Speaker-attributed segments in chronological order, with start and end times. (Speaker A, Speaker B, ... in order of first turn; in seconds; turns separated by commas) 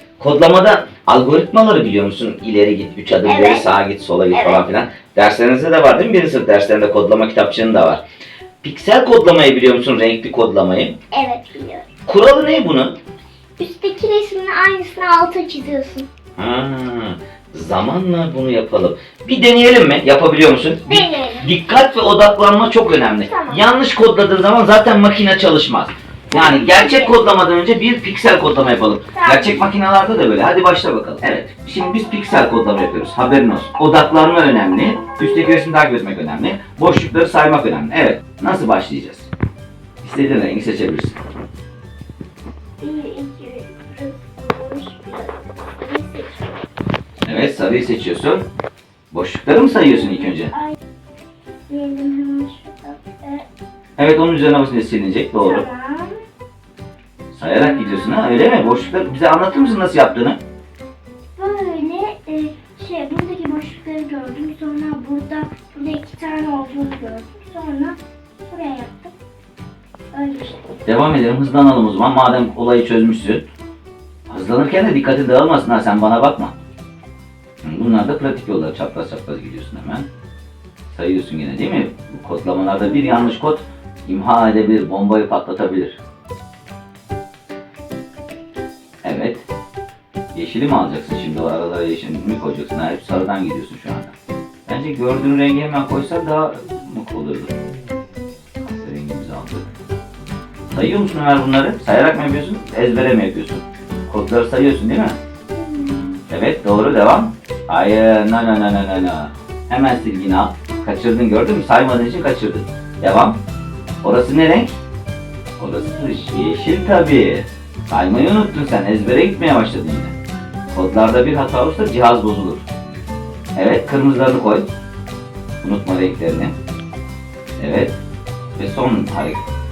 Speaker A: 0.2-8.0, Speaker B: 3.2-3.7, Speaker B: 4.3-4.6, Speaker A: 8.6-11.0, Speaker B: 11.1-11.8, Speaker A: 12.1-13.0, Speaker B: 13.6-16.1, Speaker A: 16.4-39.3, Speaker B: 20.9-21.5, Speaker B: 23.1-23.6, Speaker B: 26.3-27.1, Speaker B: 29.1-29.7, Speaker A: 40.0-41.2, Speaker B: 42.8-46.6, Speaker A: 47.2-48.5, Speaker A: 49.1-50.5, Speaker B: 49.8-50.7, Speaker B: 51.7-53.5, Speaker A: 54.0-55.7, Speaker B: 55.4-56.2, Speaker A: 57.3-60.4, Speaker B: 57.4-58.9, Speaker B: 61.4-69.1, Speaker B: 70.1-70.7, Speaker A: 70.8-73.5, Speaker A: 74.3-76.6, Speaker A: 77.6-80.1, Speaker A: 80.9-86.0, Speaker A: 89.0-89.5, Speaker A: 90.3-94.1, Speaker A: 94.7-97.5, Speaker A: 98.6-99.7, Speaker A: 100.7-105.2, Speaker B: 105.5-106.2, Speaker A: 106.3-113.4, Speaker A: 114.0-114.7, Speaker A: 115.6-120.2, Speaker B: 115.7-116.7, Speaker A: 120.7-122.7, Speaker A: 123.6-124.7, Speaker A: 125.6-126.5, Speaker A: 127.6-128.0, Speaker A: 128.6-129.4